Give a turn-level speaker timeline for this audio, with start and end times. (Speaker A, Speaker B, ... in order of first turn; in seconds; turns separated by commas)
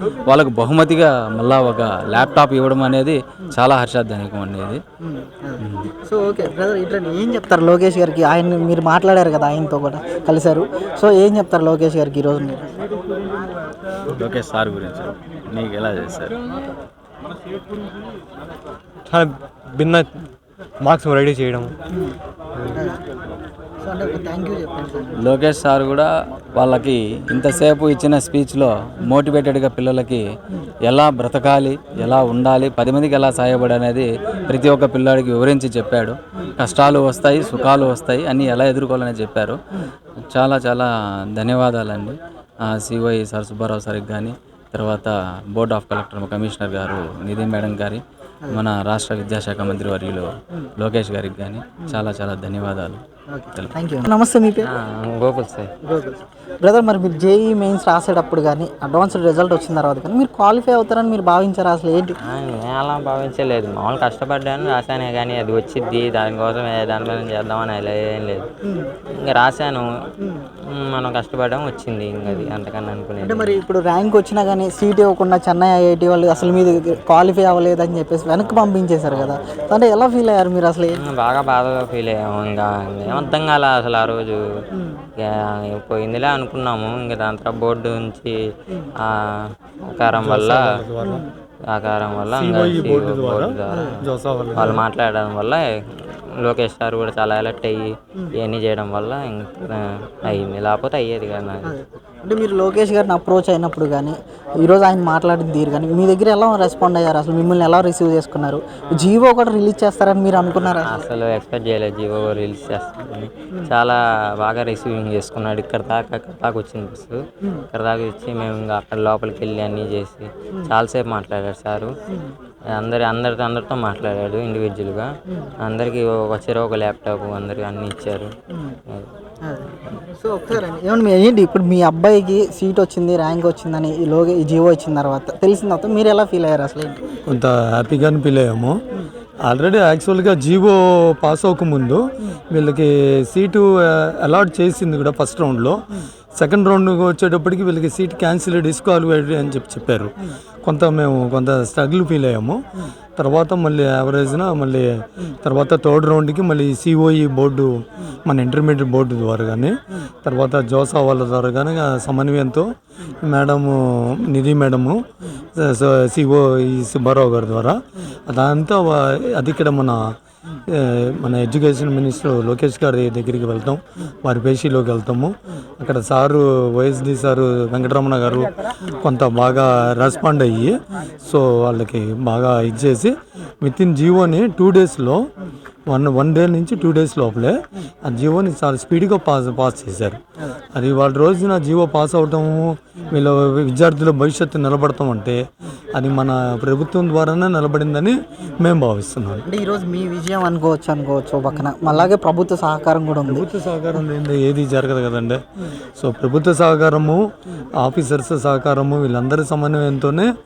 Speaker A: 0.3-4.8, Speaker B: 5.0-12.7, Speaker A: 14.2-16.3, Speaker C: 19.1-20.2, Speaker C: 20.8-21.8, Speaker B: 22.7-23.0, Speaker B: 23.8-25.4, Speaker A: 25.3-30.2, Speaker A: 30.9-39.6, Speaker A: 40.3-42.2, Speaker A: 42.7-48.0, Speaker A: 48.6-50.3, Speaker A: 50.8-53.0, Speaker B: 53.3-54.7, Speaker D: 54.6-55.7, Speaker B: 55.8-62.2, Speaker D: 62.3-68.5, Speaker D: 69.3-69.9, Speaker B: 70.2-70.5, Speaker D: 70.8-73.6, Speaker B: 72.3-72.6, Speaker B: 73.2-81.0, Speaker D: 80.9-84.4, Speaker B: 83.1-83.3, Speaker B: 84.8-85.0, Speaker D: 85.3-88.3, Speaker D: 89.3-90.6, Speaker E: 90.1-91.2, Speaker B: 91.0-91.3, Speaker D: 91.7-93.9, Speaker E: 92.3-94.8, Speaker B: 93.7-94.0, Speaker D: 94.5-95.6, Speaker D: 96.5-97.9, Speaker D: 98.4-99.7, Speaker D: 100.3-101.7, Speaker B: 101.6-111.0, Speaker D: 110.8-117.1, Speaker D: 117.7-121.9, Speaker D: 122.8-125.1, Speaker D: 125.7-128.3, Speaker B: 128.5-128.8, Speaker B: 129.4-137.1, Speaker E: 137.3-138.8, Speaker E: 139.5-145.8, Speaker E: 146.4-152.6, Speaker E: 153.2-157.7, Speaker E: 158.3-162.7, Speaker E: 163.2-165.0, Speaker E: 165.6-170.1, Speaker E: 170.7-185.3, Speaker E: 185.9-190.2, Speaker E: 190.7-195.4, Speaker E: 195.9-199.4, Speaker B: 199.5-203.4, Speaker E: 203.2-205.4, Speaker E: 206.0-210.3